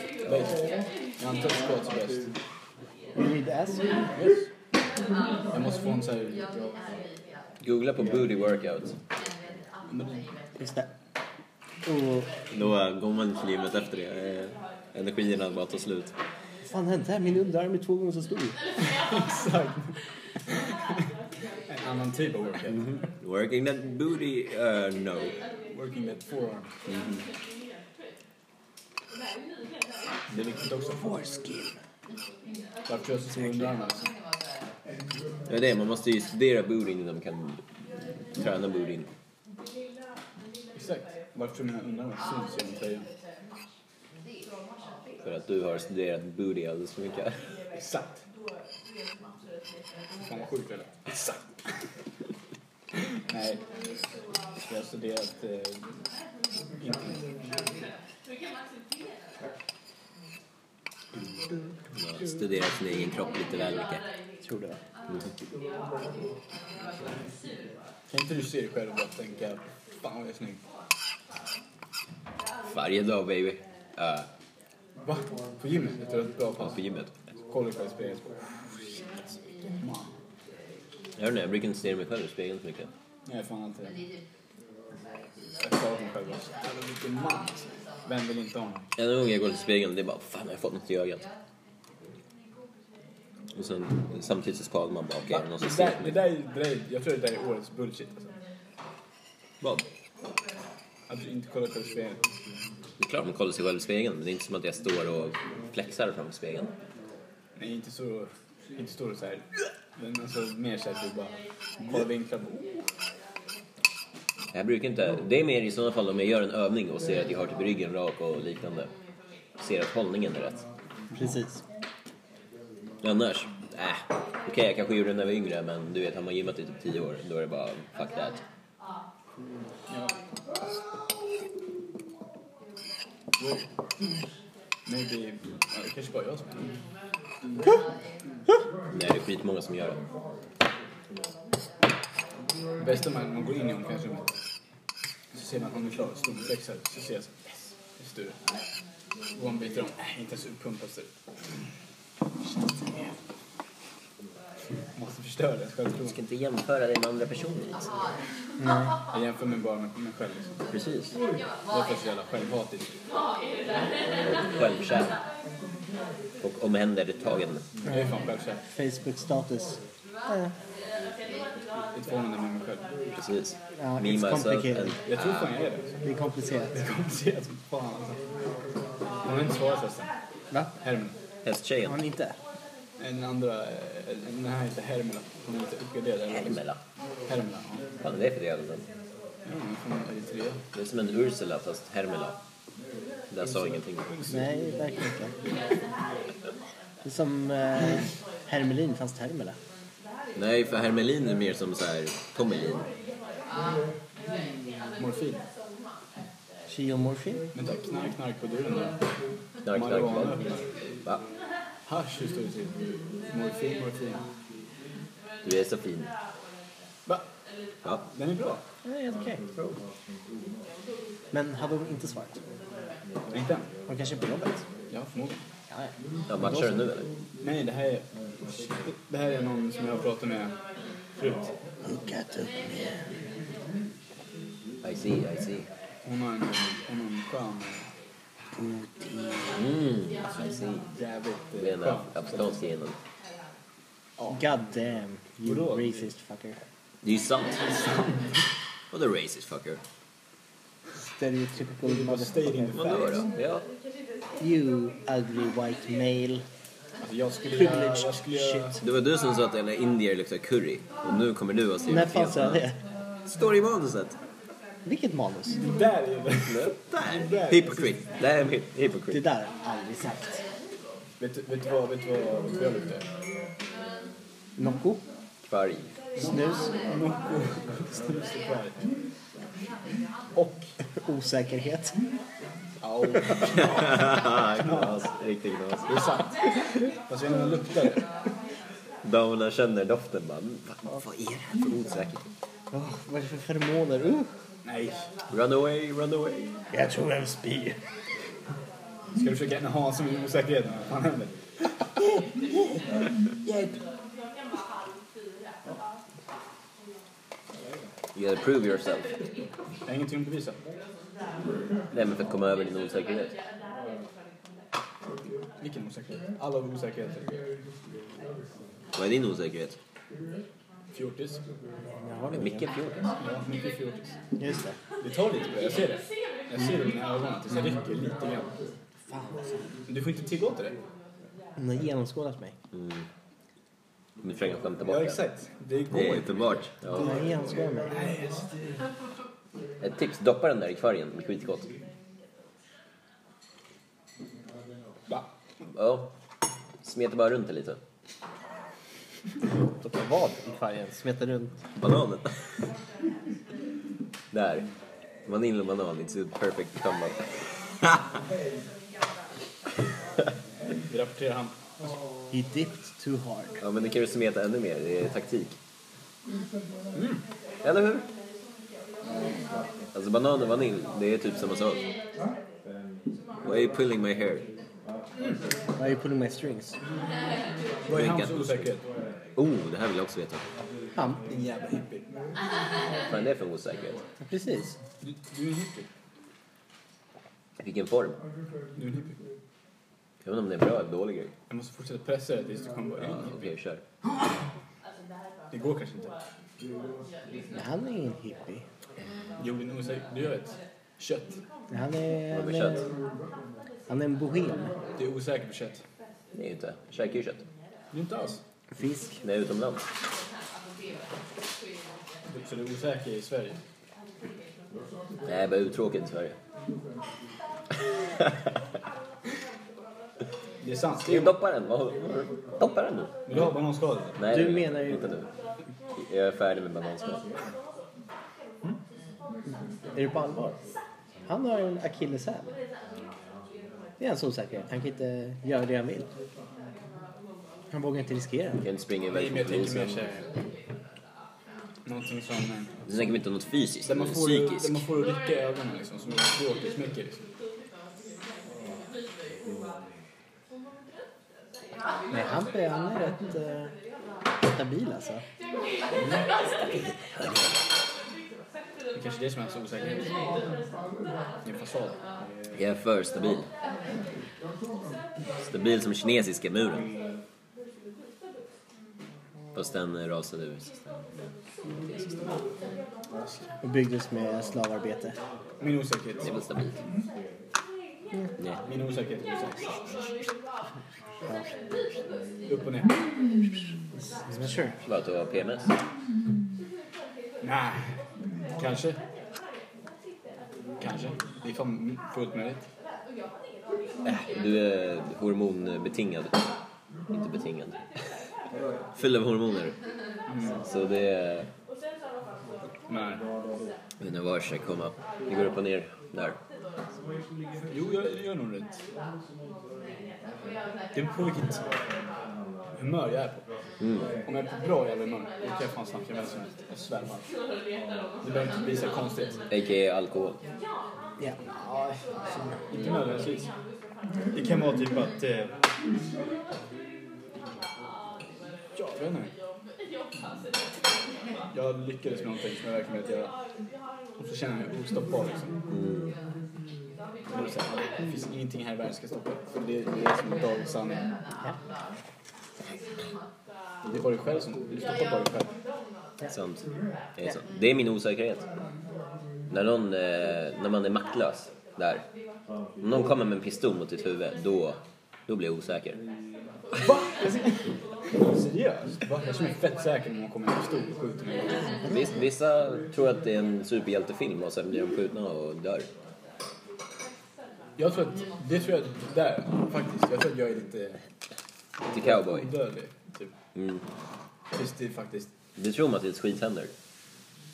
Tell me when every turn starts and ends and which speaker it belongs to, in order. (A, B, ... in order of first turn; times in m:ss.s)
0:00.3-0:02.3 A
0:03.2-0:03.9 B
0:04.2-0:04.5 A
0:05.5-0:06.4 A
0:07.6-0:09.0 C
0:09.9-0:10.2 A
0:10.6-0:10.9 B
0:11.8-0:12.3 B
0:12.5-0:16.1 C
0:16.6-0:18.6 B
0:18.9-0:19.9 A
0:21.7-0:22.8 A
0:22.7-0:25.4 C
0:25.7-0:26.8 A
0:30.3-0:31.7 A
0:32.9-0:34.1 A
0:33.4-0:33.7 C
0:35.5-0:37.6 C
0:38.4-0:39.1 C
0:40.8-0:43.1 A
0:45.2-0:47.4 C
0:47.8-0:48.2 A
0:50.2-0:51.4 A
0:53.0-0:53.6 A
0:54.6-0:55.9 A
0:56.8-0:57.3 A
1:02.0-1:04.0 C
1:04.4-1:04.8 B
1:08.1-1:10.6 A
1:12.7-1:14.3 C
1:15.0-1:16.8 A
1:16.6-1:17.1 C
1:17.5-1:20.1 A
1:21.2-1:22.9 C
1:23.3-1:24.0 A
1:25.6-1:28.9 A
1:29.0-1:31.3 C
1:33.6-1:36.2 C
1:35.3-1:38.3 A
1:41.1-1:42.2 A
1:43.0-1:46.7 C
1:47.6-1:52.8 A
1:54.5-1:58.9 C
1:59.6-2:00.6 C
2:01.1-2:01.6 B
2:03.0-2:08.4 C
2:09.9-2:10.2 A
2:13.4-2:13.7 A
2:14.9-2:16.7 A
2:18.9-2:20.0 C
2:22.8-2:24.3 A
2:25.3-2:28.4 A
2:29.4-2:31.1 A
2:35.0-2:36.2 A
2:36.0-2:37.9 C
2:38.6-2:38.9 B
2:39.1-2:40.5 A
2:40.7-2:41.1 C
2:41.7-2:42.9 A
2:44.2-2:45.2 C
2:46.4-2:47.7 C
2:47.9-2:48.6 A
2:48.6-2:50.5 B
2:52.0-2:52.8 A
2:53.2-2:55.5 C
2:53.8-2:55.0 B
2:55.1-2:56.0 A
2:56.0-2:56.8 B
2:56.7-2:58.2 A
2:59.2-3:00.1 A
3:00.8-3:01.2 A
3:01.4-3:02.0 C
3:01.8-3:02.4 B
3:03.0-3:06.6 A
3:06.3-3:06.8 C
3:07.3-3:07.8 A
3:08.0-3:08.8 C
3:09.5-3:10.6 A
3:10.7-3:12.4 C
3:13.3-3:14.1 C
3:14.1-3:14.4 A
3:14.3-3:15.4 B
3:17.0-3:19.6 B
3:20.4-3:22.8 C
3:25.0-3:25.4 A
3:26.7-3:27.5 B
3:27.6-3:29.0 A
3:29.6-3:30.5 C
3:29.7-3:30.6 A
3:31.9-3:34.2 A
3:35.4-3:36.1 C
3:38.1-3:38.6 A
3:38.8-3:39.4 B
3:41.3-3:42.4 B
3:43.3-3:43.7 A
3:43.9-3:44.6 B
3:44.9-3:45.4 A
3:46.3-3:47.1 C
3:46.4-3:46.8 B
3:47.4-3:50.6 A
3:51.2-3:51.5 A
3:51.8-3:53.0 B
3:54.8-3:55.7 C
3:56.0-3:57.9 A
3:58.6-3:59.5 B
3:59.6-4:00.9 C
4:01.0-4:02.6 A
4:01.6-4:03.0 C
4:04.2-4:04.4 A
4:04.3-4:06.6 B
4:05.4-4:06.1 A
4:07.0-4:07.6 C
4:07.6-4:08.4 A
4:08.9-4:09.8 C
4:11.0-4:12.8 B
4:11.8-4:13.3 A
4:12.7-4:13.6 C
4:14.4-4:16.4 B
4:17.0-4:18.8 A
4:17.5-4:18.8 B
4:18.8-4:22.6 C
4:21.9-4:22.8 B
4:23.3-4:24.2 C
4:24.8-4:25.6 B
4:25.6-4:28.0 A
4:26.5-4:29.2 C
4:29.1-4:30.4 B
4:31.2-4:33.0 A
4:34.6-4:35.0 B
4:35.4-4:35.9 C
4:36.2-4:38.8 A
4:36.2-4:36.7 B
4:41.0-4:42.0 B
4:42.8-4:45.0 A
4:43.6-4:46.0 C
4:45.9-4:48.0 A
4:49.0-4:52.2 C
4:52.7-4:54.3 B
4:54.6-4:55.1 A
4:55.3-4:56.6 C
4:56.7-4:57.8 B
4:59.2-5:01.8 A
5:08.2-5:09.1 C
5:09.9-5:10.6 A
5:11.9-5:13.4 C
5:15.6-5:17.4 A
5:19.0-5:19.8 C
5:20.9-5:21.4 A
5:22.0-5:22.7 B
5:22.3-5:23.1 C
5:23.2-5:24.1 A
5:24.4-5:24.8 B
5:25.0-5:28.5 A
5:29.1-5:29.7 B
5:29.9-5:30.8 A
5:31.6-5:32.6 B
5:32.7-5:33.1 C
5:34.2-5:35.2 C
5:34.8-5:38.6 A
5:35.9-5:37.2 C
5:37.0-5:38.0 B
5:39.8-5:41.7 C
5:45.7-5:46.1 C
5:46.8-5:47.8 C
5:49.6-5:51.6 B
5:51.8-5:52.4 C
5:54.3-5:54.7 C
5:55.3-5:57.4 C
6:00.9-6:01.6 A
6:02.3-6:03.6 B
6:03.6-6:05.6 C
6:07.0-6:07.2 A
6:07.6-6:08.1 C
6:09.9-6:11.9 C
6:13.4-6:14.5 C
6:15.8-6:16.8 B
6:17.9-6:18.8 A
6:17.9-6:18.7 C
6:19.4-6:20.4 C
6:21.0-6:21.2 B
6:21.3-6:22.0 A
6:23.1-6:24.0 C
6:24.3-6:24.8 B
6:25.0-6:25.9 A
6:27.6-6:28.2 C
6:28.8-6:29.2 A
6:30.2-6:31.3 C
6:31.5-6:33.5 A
6:33.0-6:33.8 C
6:35.5-6:36.2 A
6:37.5-6:38.6 B
6:39.4-6:41.4 A
6:41.7-6:42.8 B
6:42.3-6:42.8 C
6:43.9-6:44.7 B
6:45.0-6:45.8 A
6:46.3-6:47.4 C
6:47.9-6:48.4 A
6:48.7-6:49.2 B
6:49.2-6:49.8 C
6:52.3-6:53.6 A
6:55.2-6:56.4 C
7:00.6-7:01.4 A
7:01.0-7:03.1 C
7:03.3-7:04.2 A
7:04.2-7:05.3 C
7:04.3-7:05.1 B
7:06.0-7:07.3 C
7:09.9-7:10.6 B
7:11.3-7:12.5 B
7:14.0-7:16.1 B
7:17.7-7:18.6 B
7:18.6-7:20.0 C
7:19.1-7:20.3 A
7:21.9-7:23.1 A
7:22.9-7:24.8 C
7:23.8-7:27.2 A
7:32.1-7:33.7 B
7:34.4-7:35.2 B
7:37.1-7:37.5 C
7:39.0-7:40.4 A
7:41.4-7:42.0 A
7:42.5-7:43.5 C
7:45.4-7:46.9 C
7:49.6-7:50.9 C
7:51.9-7:52.4 C
7:53.6-7:55.2 B
7:55.6-7:56.4 A
7:56.2-7:56.8 C
7:58.6-8:00.0 A
8:02.5-8:03.0 A
8:04.2-8:04.7 B
8:04.8-8:05.7 C
8:07.4-8:08.0 A
8:08.6-8:09.0 A
8:10.8-8:12.6 A
8:14.0-8:16.5 C
8:17.1-8:17.8 C
8:19.0-8:19.8 C
8:20.3-8:20.6 A
8:20.6-8:21.5 C
8:22.9-8:23.2 A
8:24.0-8:26.4 C
8:27.7-8:28.7 A
8:31.0-8:31.8 A
8:32.8-8:33.4 A
8:33.8-8:34.1 C
8:34.3-8:37.2 A
8:38.2-8:39.4 A
8:39.5-8:40.4 C
8:41.5-8:43.5 A
8:44.3-8:45.5 A
8:48.8-8:49.3 A
8:51.5-8:53.3 A
8:54.2-8:55.5 A
8:55.7-8:56.1 C
8:57.3-9:01.1 A
9:03.9-9:05.5 A
9:06.3-9:06.6 C
9:07.2-9:08.4 C
9:09.5-9:12.0 C
9:12.8-9:16.0 C
9:16.8-9:21.7 A
9:21.9-9:25.9 C
9:27.8-9:31.0 A
9:31.9-9:32.5 C
9:31.9-9:33.3 A
9:33.6-9:33.8 C
9:34.5-9:35.3 A
9:35.6-9:36.7 C